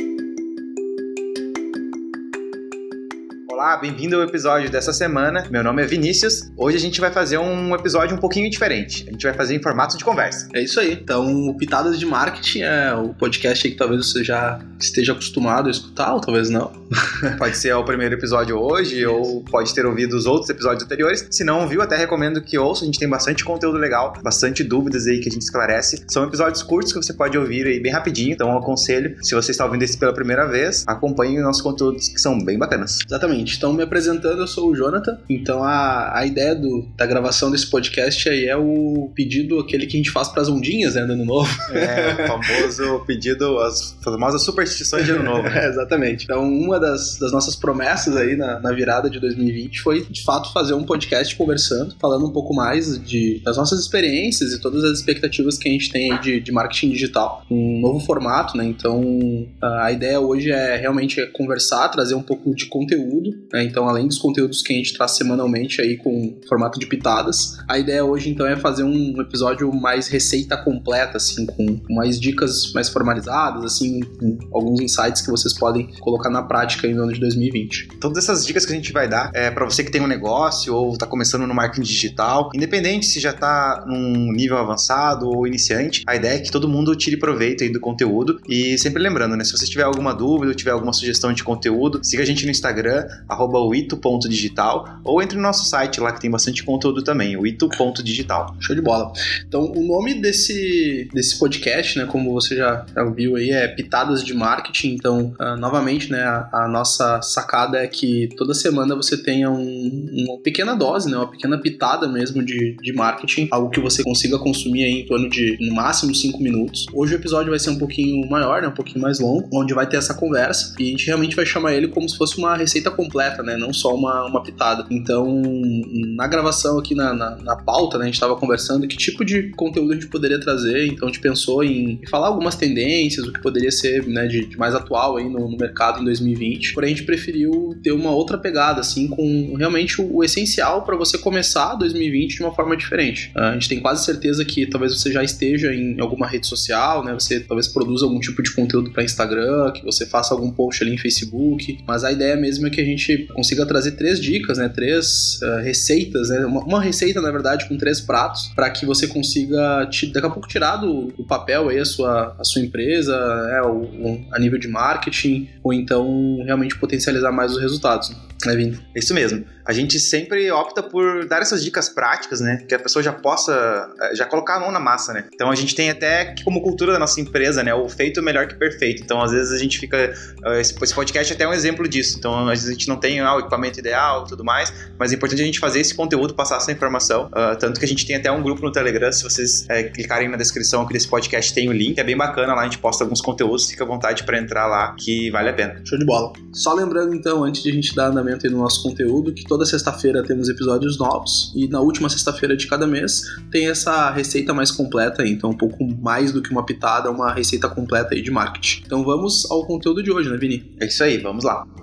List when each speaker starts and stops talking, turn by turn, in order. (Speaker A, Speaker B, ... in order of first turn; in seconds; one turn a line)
Speaker A: 3.5-10.5
Speaker B: 10.5-17.4
Speaker A: 17.4-33.0
Speaker B: 33.1-42.7
Speaker A: 41.7-45.6
Speaker B: 44.9-77.9
Speaker A: 78.0-98.5
Speaker B: 98.6-168.8
Speaker A: 168.9-195.8
Speaker B: 195.8-210.7
Speaker A: 210.8-211.7